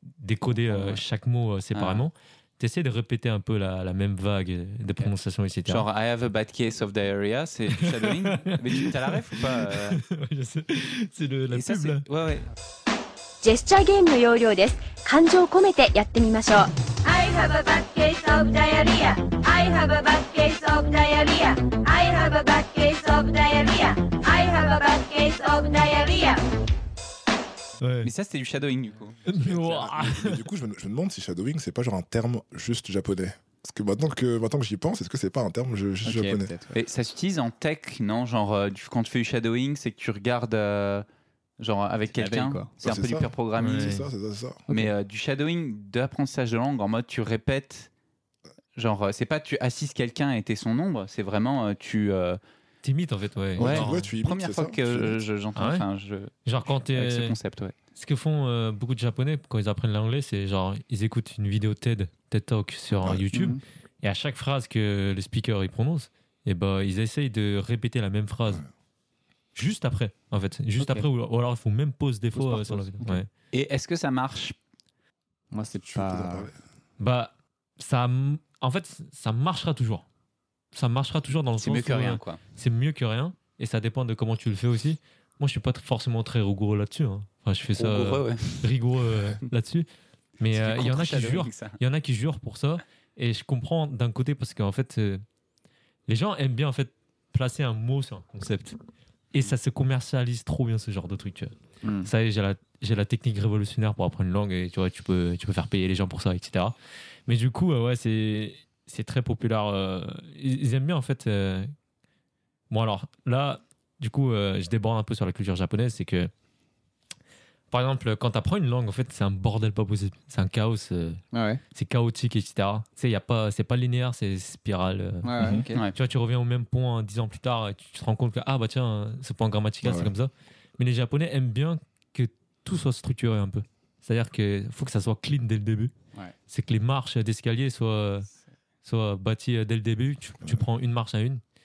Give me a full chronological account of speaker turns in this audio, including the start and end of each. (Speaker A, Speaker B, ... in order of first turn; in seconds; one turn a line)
Speaker A: 0.2-5.9
Speaker B: 0.7-1.0
Speaker C: 1.7-2.0
Speaker C: 5.7-10.0
Speaker A: 7.7-12.0
Speaker C: 11.5-12.5
Speaker D: 13.4-16.7
Speaker E: 17.0-26.4
Speaker A: 27.8-28.1
Speaker C: 28.0-29.2
Speaker A: 29.3-30.4
Speaker F: 29.3-36.5
Speaker B: 36.0-36.8
Speaker C: 36.7-41.0
Speaker C: 41.6-43.9
Speaker B: 42.1-42.7
Speaker F: 42.8-44.6
Speaker A: 43.6-44.1
Speaker C: 44.7-47.9
Speaker C: 48.8-52.4
Speaker A: 52.8-54.1
Speaker F: 53.6-55.2
Speaker C: 53.6-57.7
Speaker A: 55.6-55.9
Speaker A: 56.4-57.4
Speaker A: 57.9-68.6
Speaker F: 63.0-63.3
Speaker B: 63.3-63.6
Speaker A: 69.5-73.3
Speaker B: 70.8-71.1
Speaker B: 72.3-73.2
Speaker C: 73.5-74.6
Speaker B: 75.5-76.5
Speaker F: 75.8-76.6
Speaker A: 77.0-80.0
Speaker A: 80.7-89.9
Speaker C: 81.6-82.4
Speaker C: 87.8-88.7
Speaker A: 90.4-95.2
Speaker C: 90.5-91.8
Speaker A: 96.1-98.8
Speaker A: 99.3-106.7
Speaker B: 101.8-102.1
Speaker A: 107.3-111.7
Speaker A: 112.7-116.3
Speaker A: 117.7-121.2
Speaker B: 121.3-121.6
Speaker A: 121.7-135.9
Speaker B: 125.2-125.8
Speaker F: 125.4-125.6
Speaker F: 129.8-130.1
Speaker A: 136.5-138.3
Speaker A: 138.8-141.4